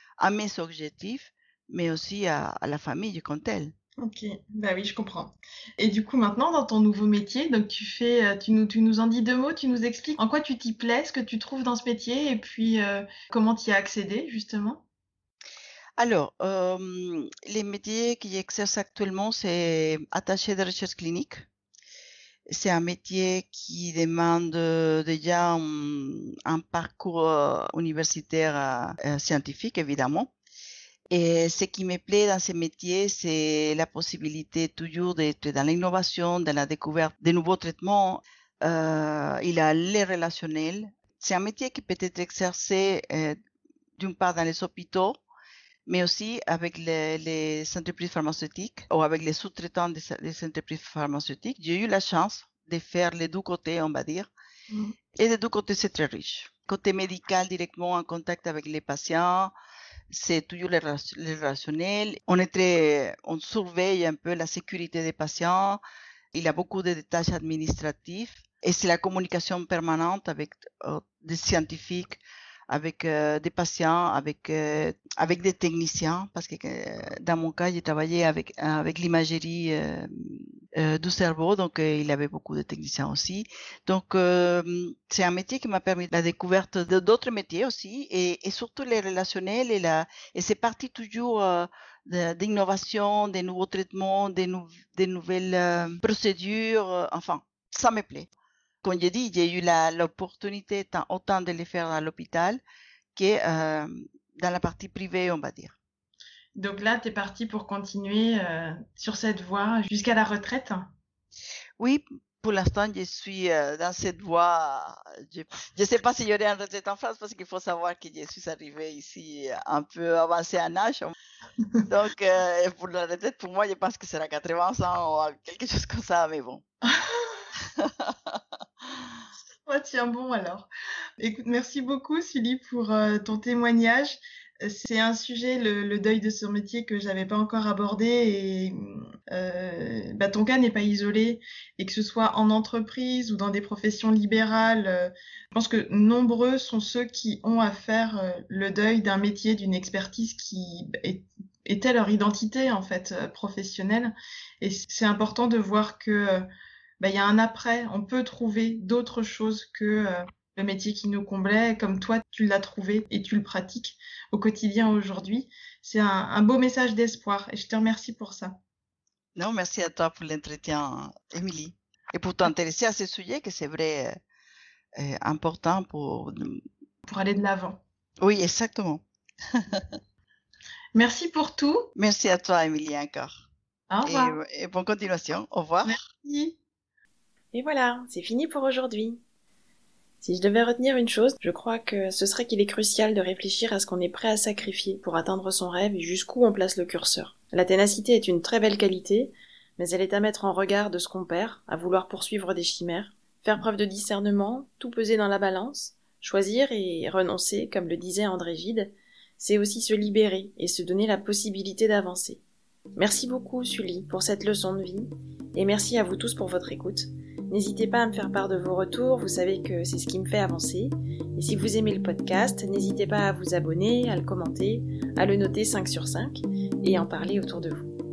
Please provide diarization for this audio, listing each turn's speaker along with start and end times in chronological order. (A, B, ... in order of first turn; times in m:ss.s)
0:00.2-0:03.7 A
0:04.0-0:14.8 B
0:16.0-0:21.4 A
0:22.5-0:30.3 A
0:31.1-0:43.4 A
0:44.0-0:45.2 A
0:45.9-0:54.3 A
0:54.7-0:55.0 B
0:55.2-0:59.5 A
1:00.1-1:05.8 A
1:06.3-1:38.3 A
1:38.8-1:42.6 A
1:43.1-1:45.8 A
1:46.6-1:50.9 B
1:51.8-2:01.1 A
2:01.9-2:06.6 A
2:06.9-2:07.5 B
2:07.8-2:08.4 A
2:09.6-2:10.7 B
2:11.2-2:36.5 B
2:37.0-2:48.6 B
2:49.4-2:54.1 A
2:55.0-2:56.6 A
2:57.1-2:57.8 B
2:58.2-2:59.0 A
2:59.5-3:00.0 A
3:00.9-3:01.9 B
3:02.0-3:03.4 A
3:03.9-3:04.4 B
3:04.0-3:06.0 A
3:05.9-3:06.6 B
3:07.5-3:09.2 C
3:10.2-3:32.4 C
3:33.0-3:47.9 C